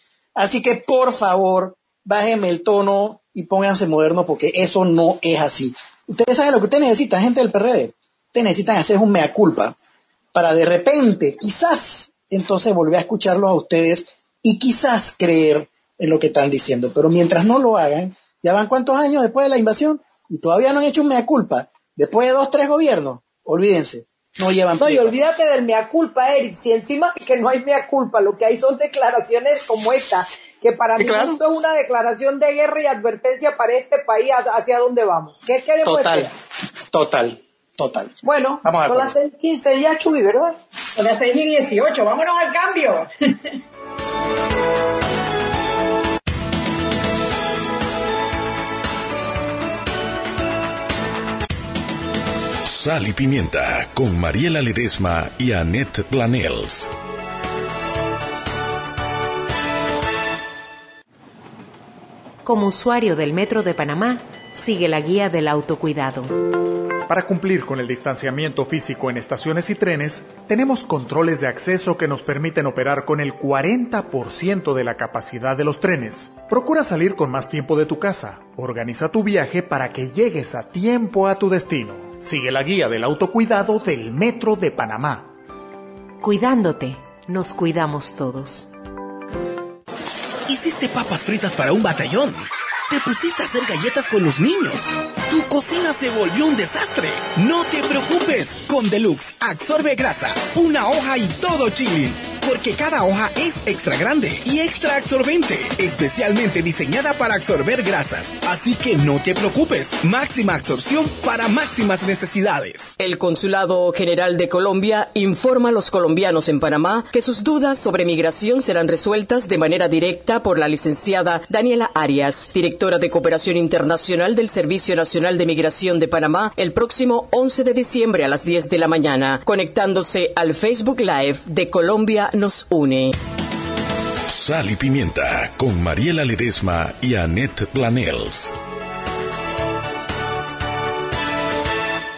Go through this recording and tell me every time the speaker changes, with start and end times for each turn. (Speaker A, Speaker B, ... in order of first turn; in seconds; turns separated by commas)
Speaker A: 0.3-9.7, Speaker A: 10.3-25.2, Speaker B: 24.8-36.3, Speaker A: 31.0-31.4, Speaker A: 35.8-36.3, Speaker A: 36.9-39.1, Speaker B: 38.2-40.6, Speaker C: 40.9-43.6, Speaker D: 52.6-56.9, Speaker E: 62.4-66.5, Speaker F: 67.1-85.3, Speaker E: 86.2-88.7, Speaker G: 90.5-112.9, Speaker H: 113.0-133.2, Speaker D: 134.3-138.5